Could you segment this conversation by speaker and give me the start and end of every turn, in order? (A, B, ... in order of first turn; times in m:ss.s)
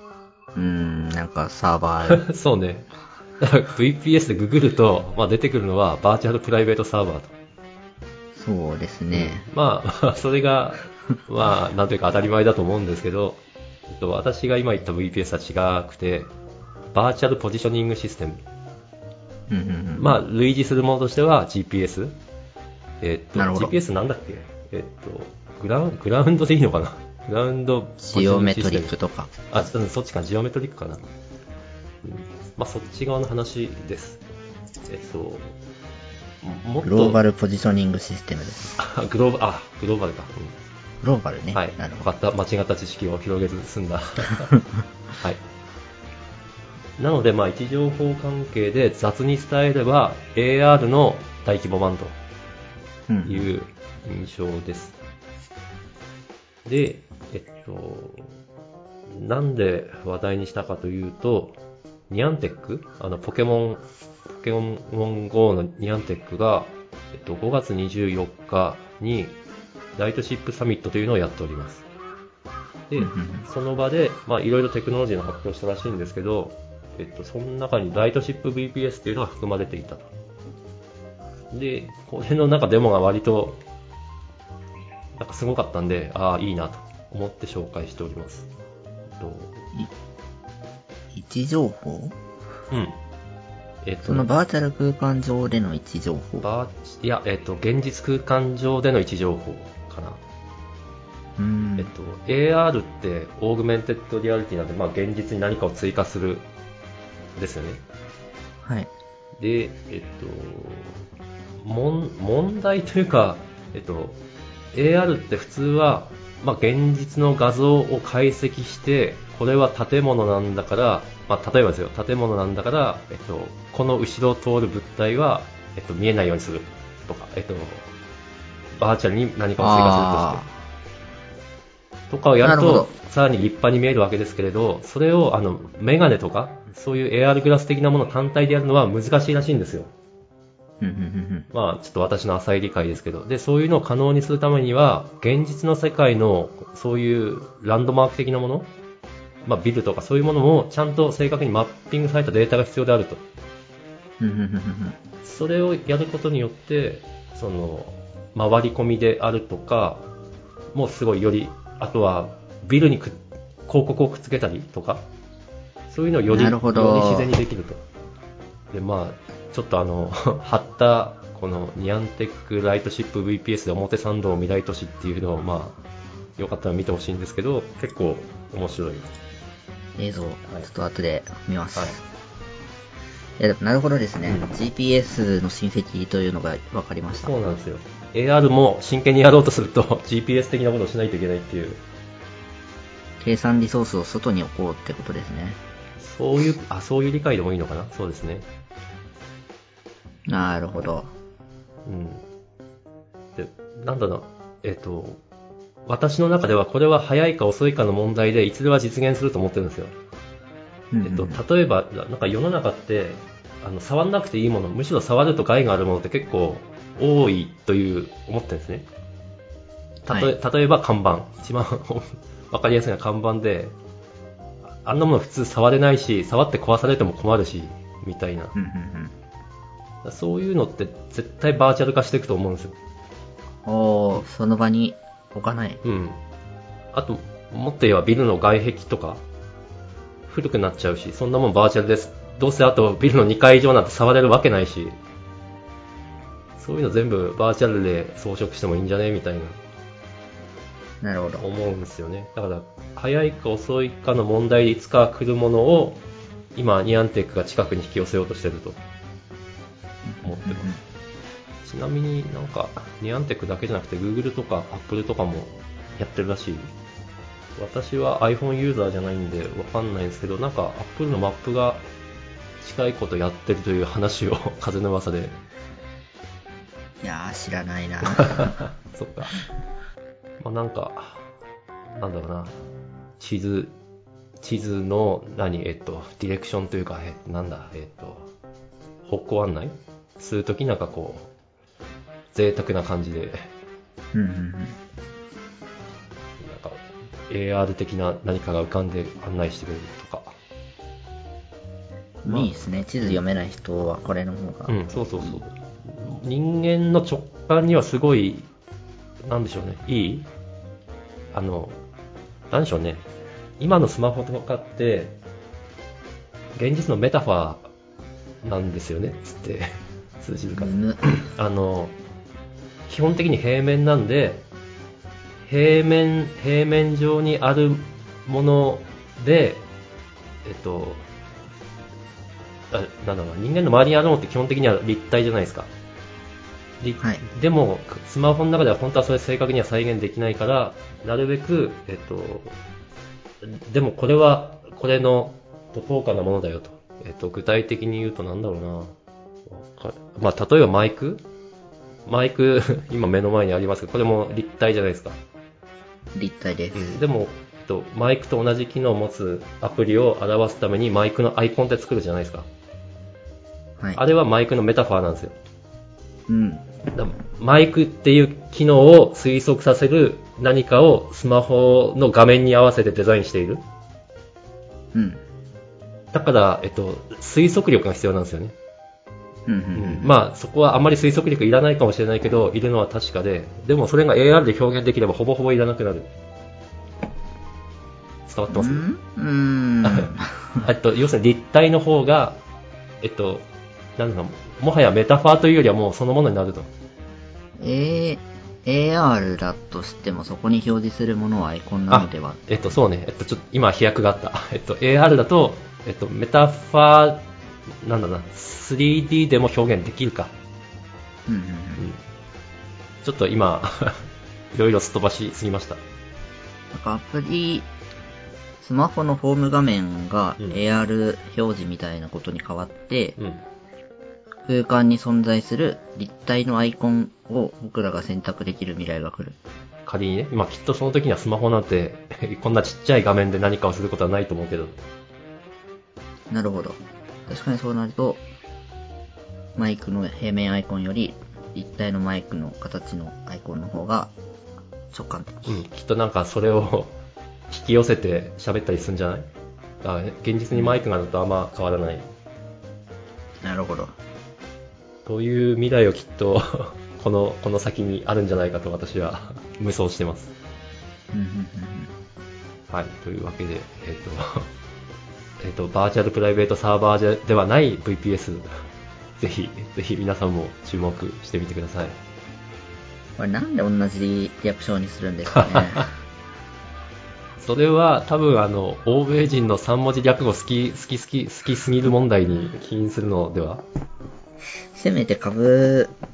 0:00.5-0:02.2 A
0:02.0-0:07.3 B
0:08.3-0:09.5 A
0:09.1-0:16.3 B
0:16.9-0:18.4 B
0:19.5-0:20.2 A
0:20.0-0:22.2 B
0:23.0-0:28.9 B
0:23.4-0:23.7 A
0:28.0-0:29.3 A
0:29.5-0:31.0 B
0:32.0-0:34.2 B
0:34.9-0:35.6 B
0:36.4-0:37.2 B
0:36.8-0:38.8 A
0:38.8-0:40.6 B
0:41.0-0:42.1 A
0:41.5-0:44.5 B
0:47.0-0:52.2 B
0:53.1-0:53.5 A
0:53.2-0:55.0 B
0:56.6-0:58.3 B
0:59.1-1:03.8 B
1:04.4-1:09.4 B
1:10.0-1:11.8 B
1:12.9-1:20.1 B
1:13.0-1:13.5 A
1:21.5-1:23.6 B
1:25.1-1:28.5 B
1:29.2-1:29.6 B
1:31.1-1:32.2 A
1:32.7-1:33.0 B
1:33.8-1:34.3 B
1:34.0-1:36.5 A
1:36.4-1:40.2 B
1:41.4-1:41.9 A
1:41.8-1:46.5 B
1:47.4-1:47.8 B
1:48.6-1:48.9 A
1:49.4-1:51.0 B
1:51.6-1:54.2 B
1:54.7-2:07.9 B
2:08.8-2:10.4 B
2:09.6-2:10.5 A
2:12.1-2:19.9 B
2:12.4-2:12.9 A
2:20.8-2:21.5 A
2:21.5-2:28.7 B
2:29.4-2:33.2 B
2:34.2-2:35.0 A
2:35.2-2:40.1 B
2:40.7-2:45.0 B
2:45.9-2:47.8 B
2:46.3-2:47.3 A
2:48.7-2:55.8 B
2:56.4-2:59.1 B
3:00.0-3:02.0 A
3:03.4-3:07.3 A
3:04.2-3:04.5 B
3:07.1-3:11.8 B
3:13.2-3:15.6 A
3:16.0-3:18.5 B
3:20.3-3:21.1 A
3:21.8-3:22.2 B
3:23.4-3:25.2 B
3:25.8-3:30.0 B
3:30.9-3:31.4 A
3:31.0-3:38.9 B
3:40.0-3:43.7 B
3:44.8-3:48.5 B
3:48.5-3:49.1 A
3:50.0-3:52.8 B
3:53.6-3:55.8 A
3:55.8-3:56.2 B
3:56.9-3:59.2 B
4:00.3-4:05.0 B
4:06.6-4:09.6 B
4:11.0-4:11.4 A
4:11.4-4:16.0 B
4:16.5-4:18.8 B
4:20.0-4:20.8 A
4:20.2-4:20.8 B
4:21.6-4:26.7 B
4:27.6-4:31.8 B
4:32.6-4:35.4 B
4:37.0-4:38.6 A
4:38.0-4:39.4 B
4:40.4-4:41.2 B
4:42.0-4:42.6 B
4:43.2-4:43.8 B
4:44.4-4:48.3 B
4:49.0-4:51.3 B
4:52.3-4:53.5 B
4:54.1-4:54.8 A
4:56.4-5:00.4 B
5:02.2-5:05.4 A
5:02.3-5:03.2 B
5:04.7-5:08.5 B
5:09.2-5:10.3 B
5:11.3-5:11.8 B
5:12.5-5:13.1 B
5:13.6-5:15.2 B
5:16.5-5:17.7 B
5:18.4-5:22.0 B
5:20.5-5:21.2 A
5:22.9-5:24.4 B
5:25.4-5:29.6 B
5:30.4-5:31.0 B
5:32.7-5:35.7 B
5:36.8-5:42.6 B
5:43.4-5:48.9 B
5:49.5-5:51.2 B
5:52.0-5:55.2 B
5:56.1-5:57.0 A
5:56.7-6:02.5 B
6:03.9-6:05.4 B
6:06.3-6:06.6 A
6:06.9-6:13.6 B
6:14.9-6:15.2 A
6:16.1-6:18.5 B
6:19.5-6:20.1 A
6:19.7-6:26.1 B
6:28.3-6:28.8 B
6:28.5-6:30.6 A
6:29.8-6:32.4 B
6:33.0-6:33.4 B
6:34.0-6:36.7 B
6:37.6-6:42.7 A
6:41.9-6:47.2 B
6:47.8-6:50.3 B
6:51.3-6:51.9 A
6:53.0-6:55.8 B
6:56.7-6:57.7 A
6:58.6-7:03.2 A
7:03.2-7:03.4 B
7:04.5-7:09.4 A
7:09.8-7:14.8 B
7:16.3-7:18.2 A
7:19.6-7:24.1 A
7:24.9-7:25.6 A
7:25.4-7:27.0 B
7:27.5-7:29.3 B
7:29.8-7:32.1 B
7:33.4-7:33.9 A
7:35.0-7:40.3 B
7:41.1-7:41.9 A
7:42.7-7:44.5 B
7:45.4-7:48.5 B
7:49.2-7:52.0 B
7:53.2-7:55.9 A
7:55.3-7:55.8 B
7:57.4-8:03.6 B
8:04.7-8:05.9 A